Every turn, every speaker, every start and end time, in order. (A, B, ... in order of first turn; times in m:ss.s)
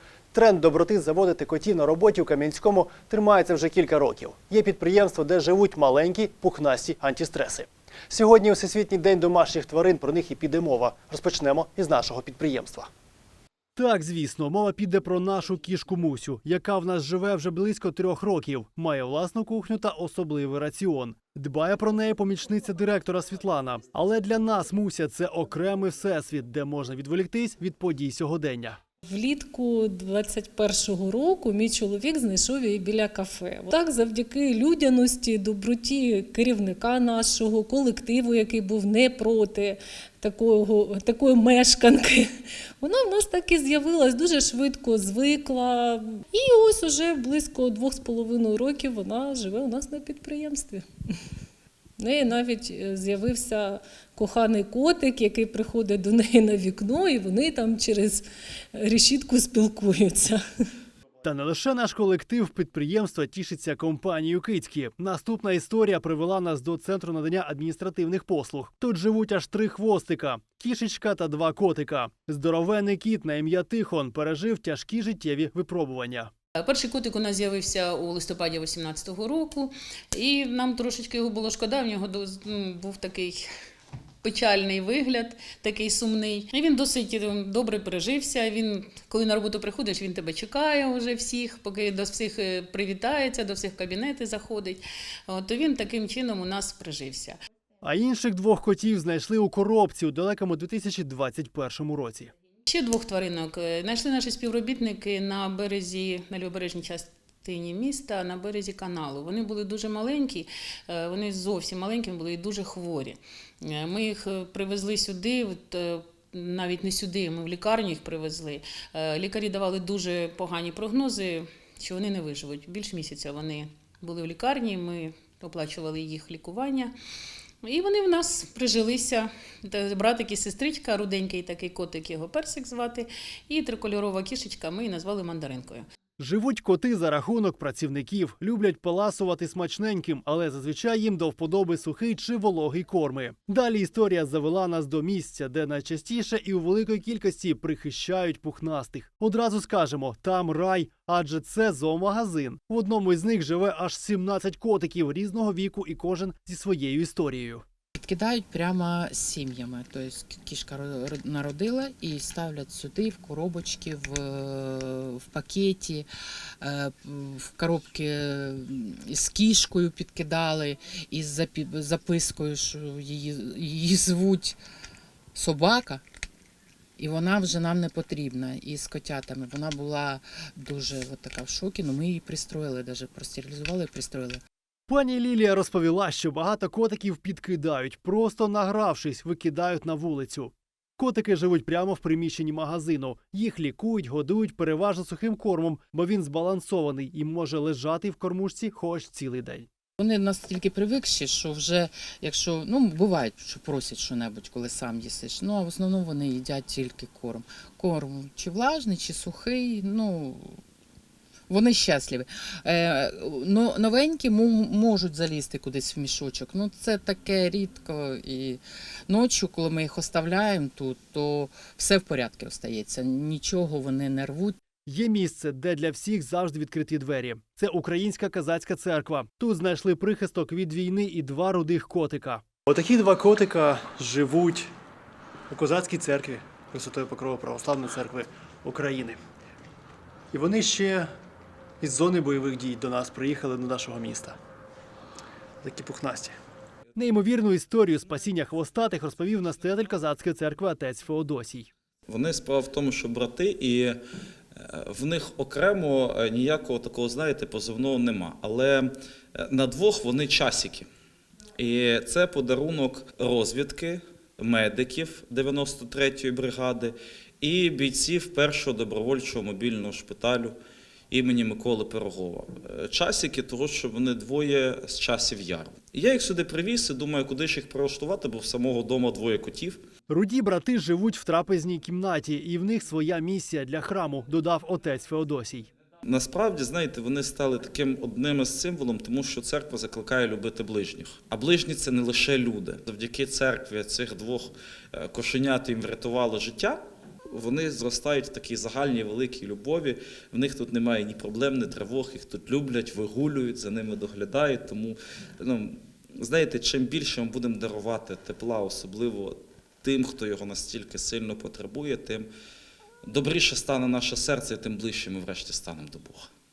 0:00.3-0:12.9 A
0:13.8-0:28.8 A
0:29.1-0:50.8 B
0:52.0-1:00.4 B
1:01.2-1:16.3 A
1:16.6-1:23.4 C
1:24.2-1:37.3 C
1:37.8-1:42.3 A
1:42.7-2:06.9 C
2:07.6-2:15.8 C
2:16.2-2:37.6 A
2:38.0-2:46.1 D
2:46.6-2:54.6 D
2:55.3-2:56.0 D
2:57.0-3:04.4 D
3:04.9-3:19.7 A
3:20.0-3:30.6 D
3:31.5-3:44.6 D
3:44.9-3:54.7 A
3:55.5-3:59.2 A
4:00.3-4:01.1 A
4:01.8-4:04.4 A
4:05.6-4:06.4 A
4:06.9-4:11.7 A
4:12.1-4:14.0 E
4:14.6-4:20.9 E
4:21.6-4:30.6 E
4:31.1-4:39.8 E
4:40.1-4:45.7 A
4:46.0-4:56.8 E
4:57.3-5:12.3 E
5:13.1-5:16.3 E